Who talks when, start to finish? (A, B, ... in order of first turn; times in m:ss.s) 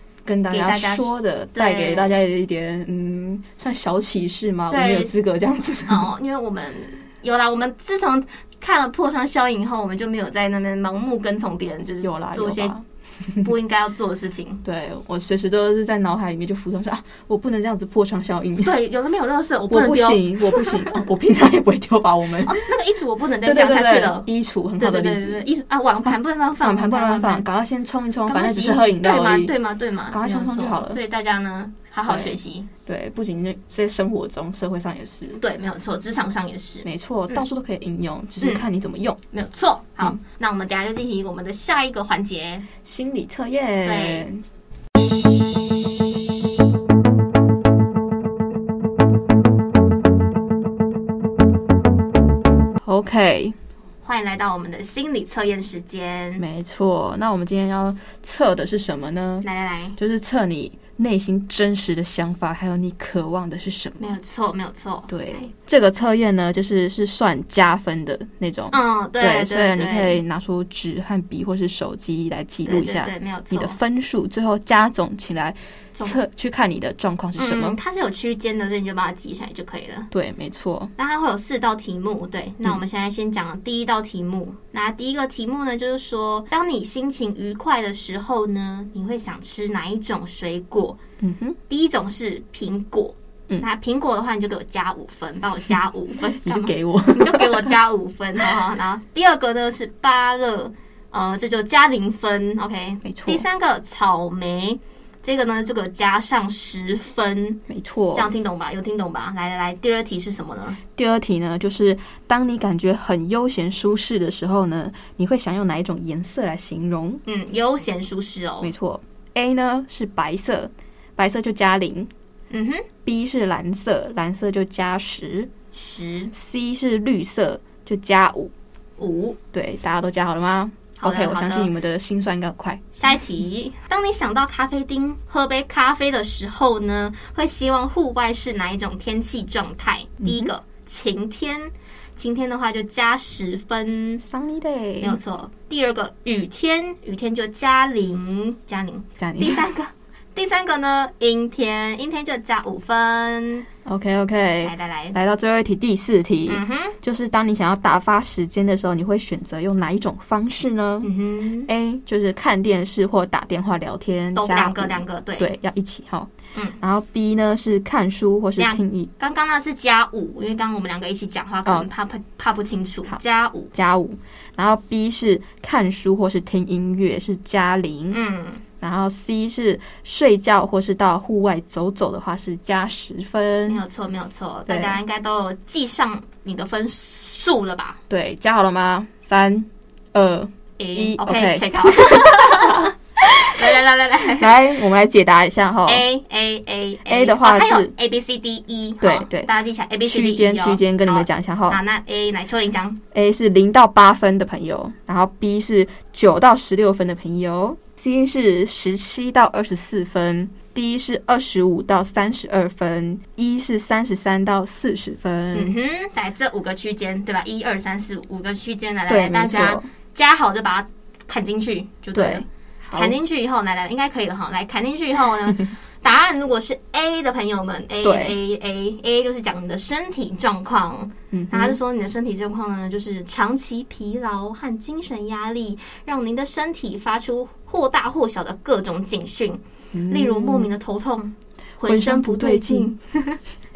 0:00.2-0:06.1 A
0:00.5-0:02.2 B
0:04.7-0:05.1 B
0:05.9-0:12.7 B
0:12.0-0:13.5 A
0:13.4-0:14.6 B
0:14.6-0:18.8 A
0:18.6-0:21.0 B
0:19.7-0:22.6 A
0:22.4-0:24.3 B
0:23.4-0:25.5 A
0:24.8-0:27.5 B
0:26.1-0:29.6 A
0:28.3-0:32.7 B
0:30.1-0:31.0 A
0:32.1-0:35.4 A
0:35.4-0:37.4 B
0:36.8-0:39.2 A
0:39.3-0:42.7 B
0:42.8-0:44.4 A
0:43.8-0:44.3 B
0:52.8-0:53.6 A
0:54.0-0:56.4 B
0:56.4-0:59.5 A
0:59.4-1:00.0 B
1:00.0-1:04.0 A
1:04.0-1:05.5 B
1:05.1-1:17.8 A
1:08.7-1:10.2 B
1:12.7-1:13.8 B
1:17.4-1:20.1 B
1:20.1-1:20.9 A
1:21.0-1:31.0 B
1:31.2-1:31.6 A
1:31.7-1:47.6 B
1:36.3-1:37.8 A
1:43.0-1:43.4 A
1:47.7-1:48.3 A
1:48.1-1:50.8 B
1:51.0-1:57.2 A
1:57.3-1:58.7 B
1:58.6-2:02.1 A
2:02.5-2:02.9 B
2:03.0-2:05.5 A
2:05.7-2:06.3 B
2:06.3-2:08.5 A
2:09.0-2:09.4 B
2:09.5-2:12.8 A
2:11.0-2:11.7 B
2:13.0-2:24.2 B
2:20.2-2:20.5 A
2:24.2-2:25.2 A
2:25.0-2:33.7 B
2:29.2-2:29.7 A
2:33.8-2:41.1 A
2:34.6-2:35.2 B
2:36.5-2:37.0 B
2:41.0-2:41.7 B
2:41.7-2:49.1 A
2:44.4-2:45.5 B
2:48.6-2:53.7 B
2:53.7-2:58.2 A
2:58.1-2:58.6 B
2:58.8-3:03.8 A
3:03.7-3:08.0 B
3:04.7-3:05.0 A
3:08.1-3:16.0 A
3:10.8-3:14.6 B
3:15.9-3:23.0 B
3:17.1-3:17.9 A
3:19.0-3:19.5 A
3:20.0-3:21.8 A
3:23.1-3:35.8 A
3:35.5-4:03.4 B
3:39.1-3:39.9 A
3:42.2-3:43.2 A
3:48.0-3:48.4 A
3:51.3-3:51.8 A
3:59.9-4:00.7 A
4:01.9-4:02.9 A